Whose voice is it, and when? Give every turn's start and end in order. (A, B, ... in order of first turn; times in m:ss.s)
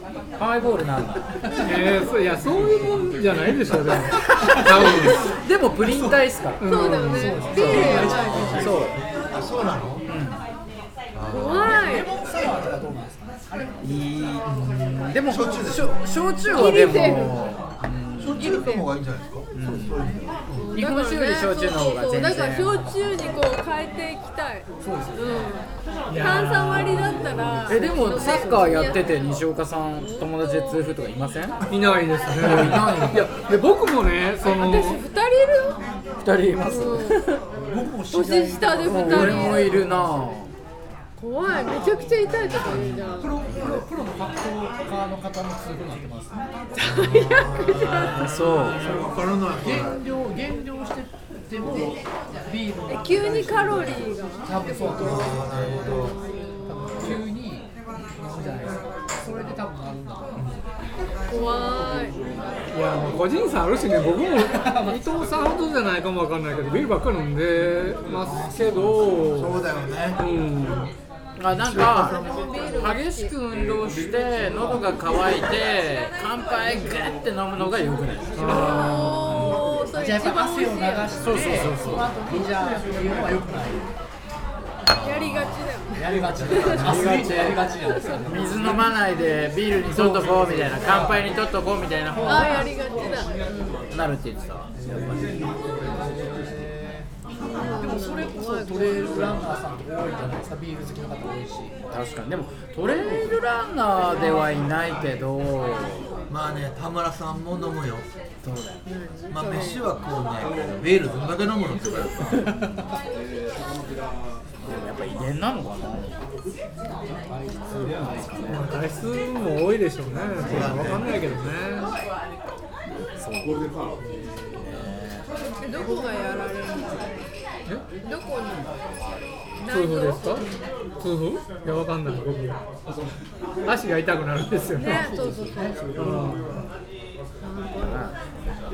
0:00.4-0:01.4 A
0:01.6-0:05.2 B
0:04.3-0:04.9 C
0:04.6-0:06.6 A
0:05.8-0:06.2 C
0:06.6-0:07.4 B
0:06.6-0:08.7 D
0:07.1-0:09.0 C
0:07.5-0:10.0 E
0:07.6-0:08.9 A
0:10.1-0:10.4 A
0:11.1-0:11.8 E
0:11.3-0:12.1 D
0:11.6-0:13.8 C
0:13.8-0:18.6 A
0:15.3-0:16.0 E
0:16.5-0:17.4 D
0:18.2-0:20.7 E
0:18.4-0:18.9 D
0:19.5-0:20.0 A
0:20.5-0:29.3 D
0:20.7-0:22.8 A
0:24.8-0:25.5 C
0:26.1-0:27.8 B
0:27.7-0:31.6 A
0:30.0-0:30.8 D
0:31.7-0:35.0 B
0:32.4-0:33.3 A
0:32.4-0:33.0 E
0:34.4-0:35.8 D
0:36.2-0:37.4 A
0:36.6-0:37.2 D
0:37.5-0:40.2 C
0:38.1-0:39.7 D
0:38.8-0:40.5 A
0:41.2-0:43.3 D
0:41.5-0:47.8 C
0:43.6-0:43.8 E
0:46.8-0:48.2 D
0:46.8-0:50.0 E
0:48.1-0:48.8 A
0:49.6-0:57.6 C
0:52.9-0:55.4 D
0:55.0-0:56.2 E
0:56.0-0:56.9 D
0:58.2-1:00.4 C
1:00.4-1:00.6 E
1:01.3-1:02.2 D
1:02.7-1:09.6 B
1:04.4-1:05.0 C
1:08.2-1:09.2 C
1:09.3-1:10.2 E
1:10.2-1:10.9 B
1:11.4-1:12.2 A
1:11.5-1:12.4 E
1:11.9-1:13.3 D
1:12.8-1:18.9 A
1:18.4-1:19.5 B
1:18.4-1:21.8 D
1:19.9-1:23.9 C
1:21.2-1:22.1 A
1:24.9-1:25.6 E
1:25.0-1:26.9 D
1:25.9-1:28.9 C
1:26.3-1:27.2 E
1:26.8-1:27.7 A
1:27.9-1:28.3 D
1:28.2-1:32.7 A
1:29.8-1:31.3 C
1:32.2-1:33.8 D
1:33.9-1:35.4 A
1:34.8-1:41.7 C
1:37.5-1:39.4 D
1:41.9-1:46.0 A
1:46.3-1:48.1 E
1:48.4-1:48.8 A
1:48.8-1:49.8 D
1:49.3-1:52.6 E
1:54.6-1:56.1 A
1:57.1-1:58.7 C
1:58.0-1:58.7 A
1:58.5-2:01.9 B
2:00.4-2:01.2 E
2:03.2-2:03.6 A
2:04.2-2:05.2 A
2:05.6-2:07.2 D
2:08.0-2:08.7 D
2:09.6-2:10.5 D
2:09.7-2:10.4 B
2:11.0-2:12.6 B
2:13.6-2:15.1 B
2:14.8-2:16.0 D
2:14.9-2:16.5 C
2:16.0-2:16.5 B
2:17.4-2:17.9 D
2:17.8-2:18.1 A